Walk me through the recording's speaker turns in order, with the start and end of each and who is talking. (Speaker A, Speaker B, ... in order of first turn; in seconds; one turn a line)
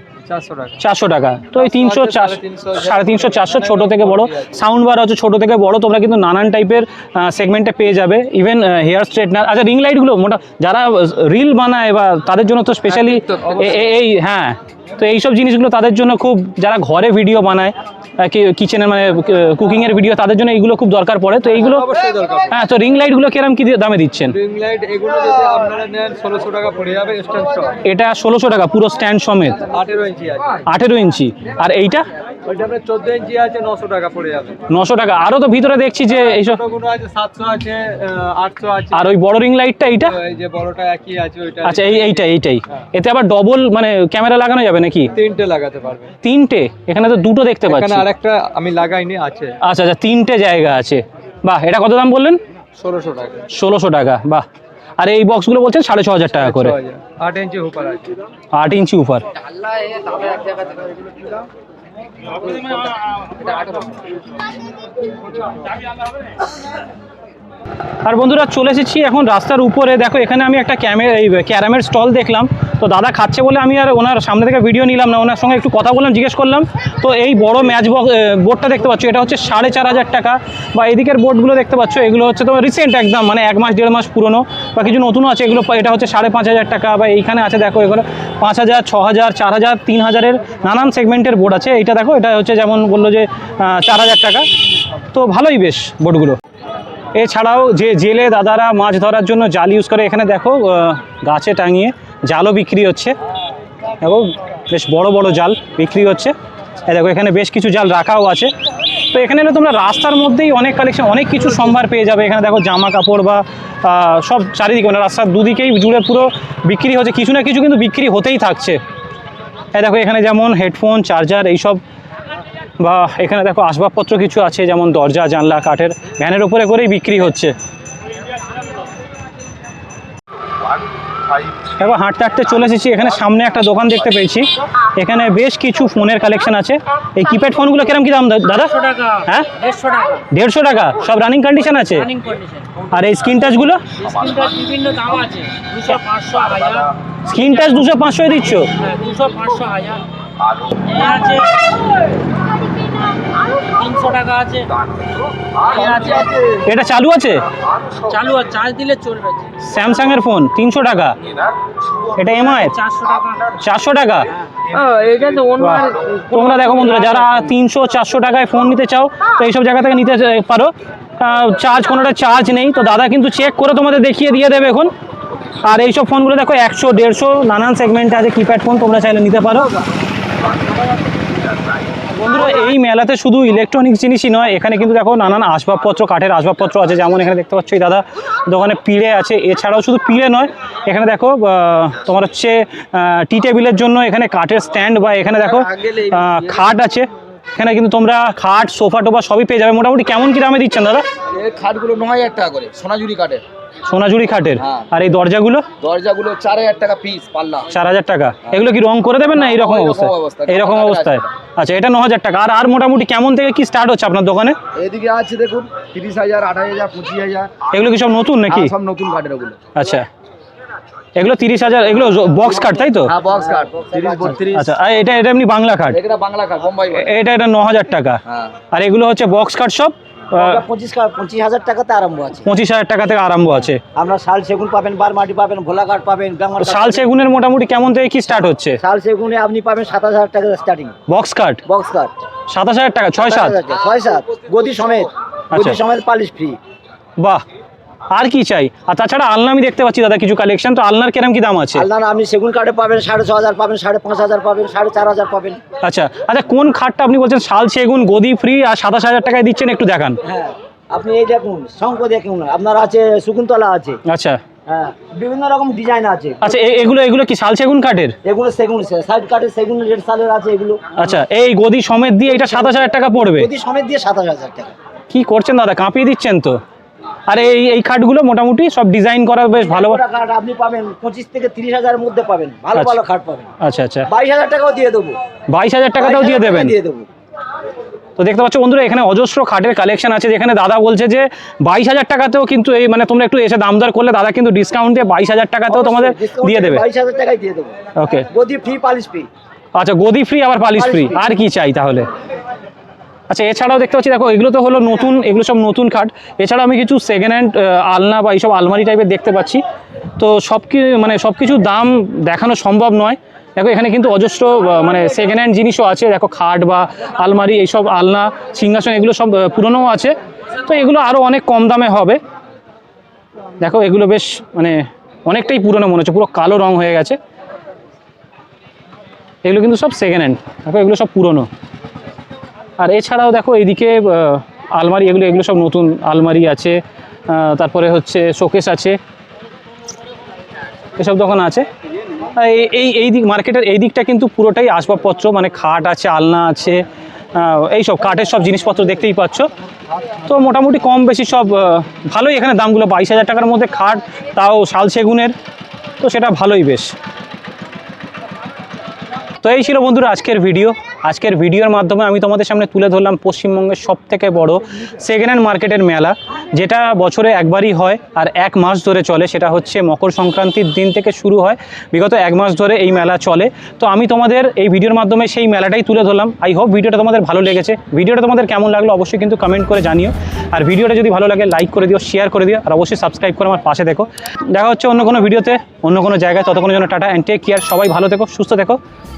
Speaker A: 0.2-0.8
Speaker B: 0.8-21.9
Speaker A: 1.5-4.6
Speaker A: 12.9-13.9
Speaker A: 21.4-22.5
Speaker B: 22.5-24.3
Speaker A: 24.3-27.8
Speaker B: 27.8-29.6
Speaker A: 29.7-30.6
Speaker B: 30.6-32.1
Speaker A: 32.4-34.6
Speaker B: 34.7-36.6
Speaker A: 36.1-39.2
Speaker B: 38.9-40.1
Speaker A: 40.0-42.3
Speaker B: 41.6-45.1
Speaker A: 45.1-46.1
Speaker B: 46.2-48.1
Speaker A: 47.7-49.5
Speaker B: 49.6-52.4
Speaker A: 52.8-53.4
Speaker B: 53.5-54.5
Speaker B: 55.0-56.8
Speaker A: 56.3-58.2
Speaker B: 58.5-59.2
Speaker B: 68.0-94.5
Speaker B: 95.1-96.4
Speaker B: 97.1-103.2
Speaker B: 104.0-106.3
Speaker B: 106.8-108.5
Speaker B: 109.1-118.8
Speaker B: 119.7-121.8
Speaker B: 122.8-127.5
Speaker B: 131.8-139.5
Speaker C: 138.7-140.2
Speaker B: 140.3-142.1
Speaker C: 142.0-142.7
Speaker B: 142.9-143.8
Speaker C: 144.0-147.6
Speaker B: 147.2-148.7
Speaker C: 148.7-150.0
Speaker C: 150.8-151.8
Speaker C: 153.5-154.7
Speaker C: 155.7-156.2
Speaker D: 155.7-156.6
Speaker B: 156.6-157.4
Speaker C: 158.1-159.5
Speaker B: 159.6-161.2
Speaker B: 162.2-162.8
Speaker C: 162.6-163.5
Speaker B: 163.6-164.3
Speaker C: 164.7-166.6
Speaker B: 165.5-174.9
Speaker B: 175.6-179.7
Speaker B: 182.2-201.1
Speaker D: 195.4-196.7
Speaker D: 201.3-203.4
Speaker B: 203.9-205.7
Speaker D: 204.6-204.9
Speaker D: 205.8-207.7
Speaker B: 207.7-214.6
Speaker D: 209.2-211.2
Speaker D: 214.7-217.5
Speaker B: 217.7-218.7
Speaker D: 218.5-219.6
Speaker B: 219.7-220.1
Speaker B: 221.2-223.1
Speaker D: 223.0-224.7
Speaker E: 223.3-224.4
Speaker B: 224.5-226.0
Speaker D: 225.9-227.1
Speaker B: 226.9-228.2
Speaker D: 228.2-228.5
Speaker B: 228.7-230.6
Speaker E: 230.3-232.5
Speaker B: 232.4-233.8
Speaker E: 233.9-237.1
Speaker B: 236.6-238.8
Speaker E: 238.8-240.9
Speaker B: 241.1-241.6
Speaker E: 241.7-242.1
Speaker B: 242.5-243.6
Speaker E: 243.2-246.6
Speaker D: 243.8-244.8
Speaker B: 245.5-245.8
Speaker B: 247.2-247.4
Speaker B: 248.1-251.8
Speaker E: 251.7-255.6
Speaker B: 255.8-260.2
Speaker E: 260.2-264.0
Speaker B: 264.1-264.4
Speaker E: 264.7-266.6
Speaker B: 266.4-268.2
Speaker E: 268.2-271.1
Speaker B: 270.9-273.5
Speaker E: 272.4-274.7
Speaker B: 275.1-276.6
Speaker B: 277.3-280.0
Speaker E: 279.5-283.5
Speaker B: 283.6-284.1
Speaker E: 284.1-285.2
Speaker B: 285.5-286.7
Speaker E: 286.0-287.1
Speaker B: 288.2-296.8
Speaker E: 295.7-297.8
Speaker B: 297.9-298.3
Speaker E: 298.3-299.3
Speaker B: 299.7-302.1
Speaker E: 300.7-301.3
Speaker B: 303.3-309.6
Speaker B: 310.2-322.2
Speaker B: 323.6-327.2
Speaker B: 329.4-331.5
Speaker B: 332.8-339.0
Speaker B: 341.0-341.7
Speaker B: 342.4-346.8
Speaker B: 347.3-349.5
Speaker B: 350.2-355.3
Speaker B: 356.0-356.9
Speaker B: 359.4-388.8